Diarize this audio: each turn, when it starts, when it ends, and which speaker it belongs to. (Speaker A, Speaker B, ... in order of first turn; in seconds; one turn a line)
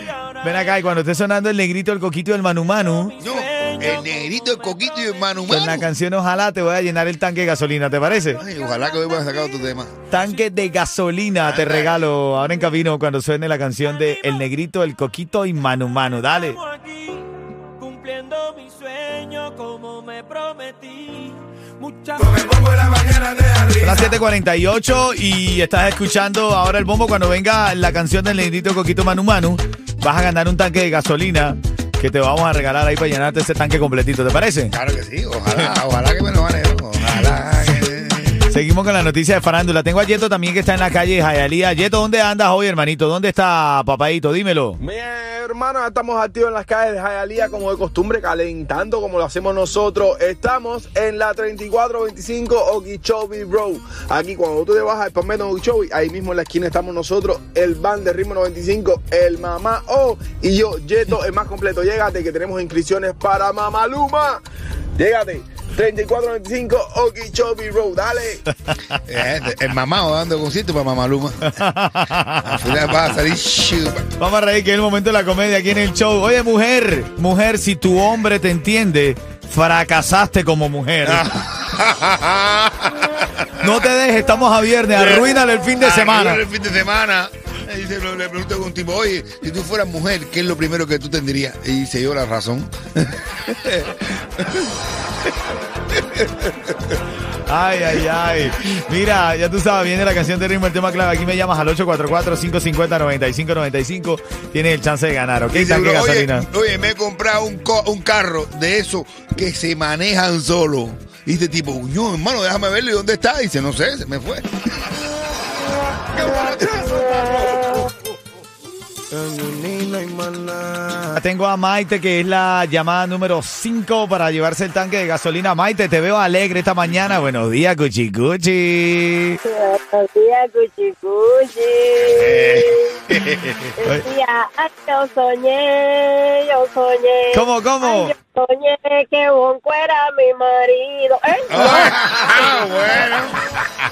Speaker A: 0.4-3.2
Speaker B: 3.2-5.9
Speaker A: 5.5-8.4
Speaker B: 8.3-9.9
Speaker A: 10.1-16.6
Speaker B: 11.4-12.0
Speaker C: 16.6-22.7
Speaker D: 22.8-23.7
Speaker A: 23.8-34.8
Speaker B: 34.7-38.4
Speaker A: 38.4-44.8
Speaker D: 44.8-64.4
Speaker D: 65.0-68.4
Speaker B: 69.1-71.5
Speaker A: 71.4-73.1
Speaker B: 72.4-74.1
Speaker A: 74.2-81.2
Speaker B: 81.1-83.7
Speaker A: 83.6-86.4
Speaker B: 84.9-94.7
Speaker B: 95.9-96.8
Speaker A: 97.5-106.5
Speaker B: 105.5-115.0
Speaker D: 116.2-117.9
Speaker D: 119.1-121.2
Speaker A: 121.2-129.4
Speaker E: 129.4-133.0
Speaker B: 132.0-133.7
Speaker E: 133.8-142.4
Speaker A: 137.3-138.1
Speaker B: 141.5-143.4